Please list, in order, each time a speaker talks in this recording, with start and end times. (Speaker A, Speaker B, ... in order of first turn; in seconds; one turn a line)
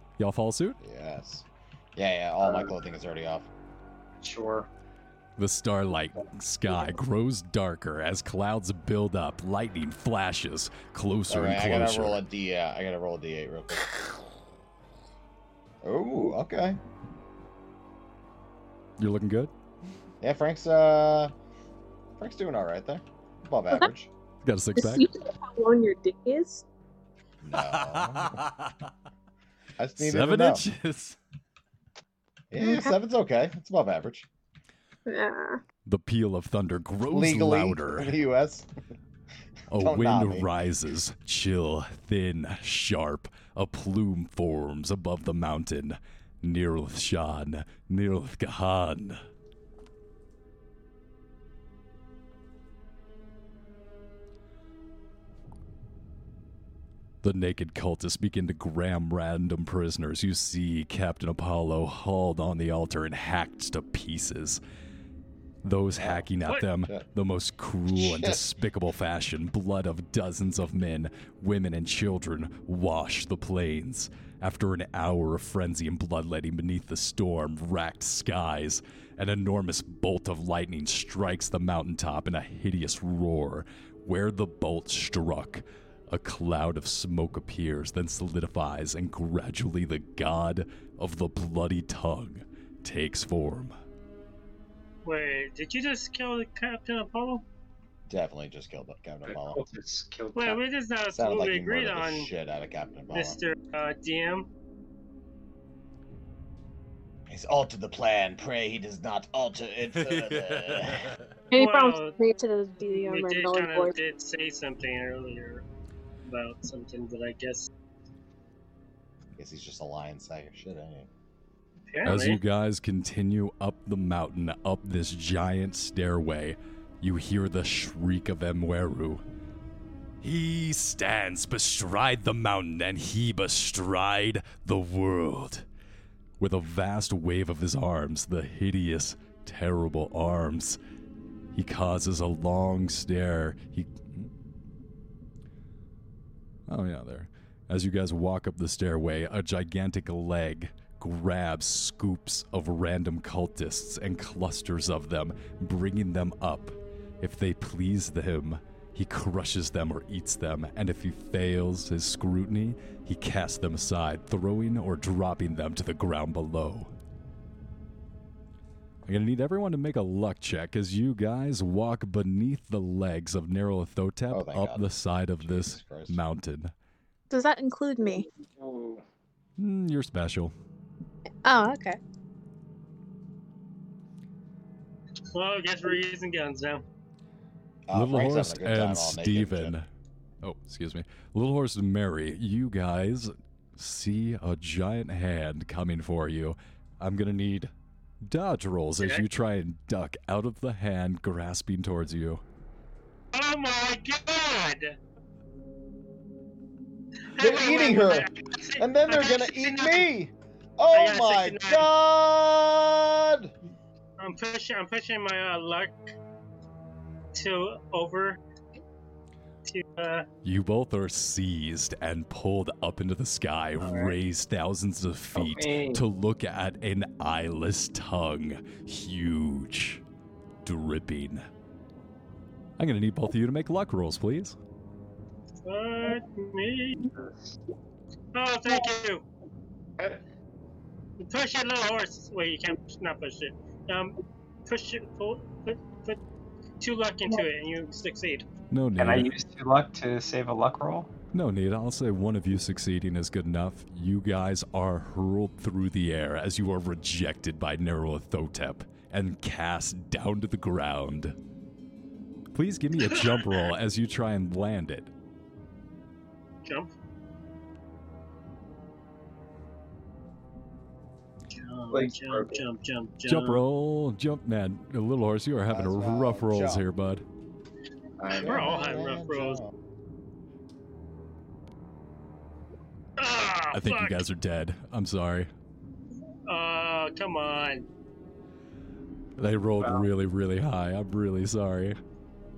Speaker A: 0.2-0.8
Speaker B: 0.8-3.5
Speaker C: 4.2-4.7
Speaker A: 5.4-12.2
Speaker B: 11.3-13.9
Speaker B: 15.8-16.8
Speaker A: 19.0-19.5
Speaker B: 20.2-21.3
Speaker B: 22.1-24.1
Speaker A: 24.4-25.1
Speaker D: 24.8-26.6
Speaker B: 27.4-28.4
Speaker A: 27.5-28.8
Speaker B: 29.8-30.6
Speaker A: 30.0-31.2
Speaker B: 32.5-34.3
Speaker D: 32.6-32.9
Speaker D: 35.0-35.6
Speaker A: 35.9-38.1
Speaker B: 37.1-38.7
Speaker B: 39.7-40.5
Speaker A: 39.7-49.2
Speaker A: 57.2-64.6
Speaker A: 65.6-93.7
Speaker B: 66.0-66.2
Speaker B: 67.9-68.5
Speaker E: 95.0-97.4
Speaker B: 98.1-99.6
Speaker C: 99.2-100.6
Speaker E: 100.3-102.3
Speaker B: 101.1-103.4
Speaker E: 103.1-104.5
Speaker B: 107.3-111.1
Speaker A: 110.0-111.2
Speaker D: 111.5-113.9
Speaker E: 111.5-112.2
Speaker E: 112.9-115.6
Speaker E: 116.2-117.7
Speaker B: 119.3-121.1
Speaker E: 121.9-122.4
Speaker A: 122.0-129.2
Speaker A: 130.2-135.7
Speaker A: 136.4-140.8
Speaker A: 141.5-144.3
Speaker A: 146.7-166.9
Speaker A: 169.1-176.7
Speaker B: 174.3-176.2
Speaker D: 177.3-178.3
Speaker C: 178.4-179.0
Speaker A: 179.6-180.5
Speaker D: 181.4-182.0
Speaker E: 185.3-186.8
Speaker B: 187.9-189.8
Speaker A: 187.9-189.8
Speaker A: 190.4-197.7
Speaker A: 198.2-202.4
Speaker E: 203.3-205.0
Speaker E: 207.3-210.1
Speaker B: 207.4-213.5
Speaker E: 210.9-211.9
Speaker E: 214.2-216.0
Speaker E: 217.3-218.4
Speaker E: 219.6-220.2
Speaker A: 220.4-230.0
Speaker E: 223.8-224.2
Speaker C: 225.3-226.0
Speaker A: 230.6-231.4
Speaker A: 232.8-234.6
Speaker E: 235.6-237.0
Speaker C: 237.0-237.6
Speaker E: 238.3-239.2
Speaker E: 241.2-244.1
Speaker E: 244.7-246.2
Speaker E: 246.8-248.4
Speaker A: 248.7-249.3
Speaker C: 249.0-251.1
Speaker A: 251.3-261.4
Speaker A: 262.5-265.1
Speaker E: 263.1-263.5
Speaker E: 271.5-273.6
Speaker C: 271.9-272.6
Speaker A: 273.3-277.2
Speaker B: 275.7-276.9
Speaker C: 278.2-278.9
Speaker B: 278.3-279.7
Speaker E: 278.4-279.6
Speaker E: 283.2-284.2
Speaker A: 283.7-285.5
Speaker E: 286.5-287.9
Speaker A: 289.4-292.0
Speaker C: 289.8-290.1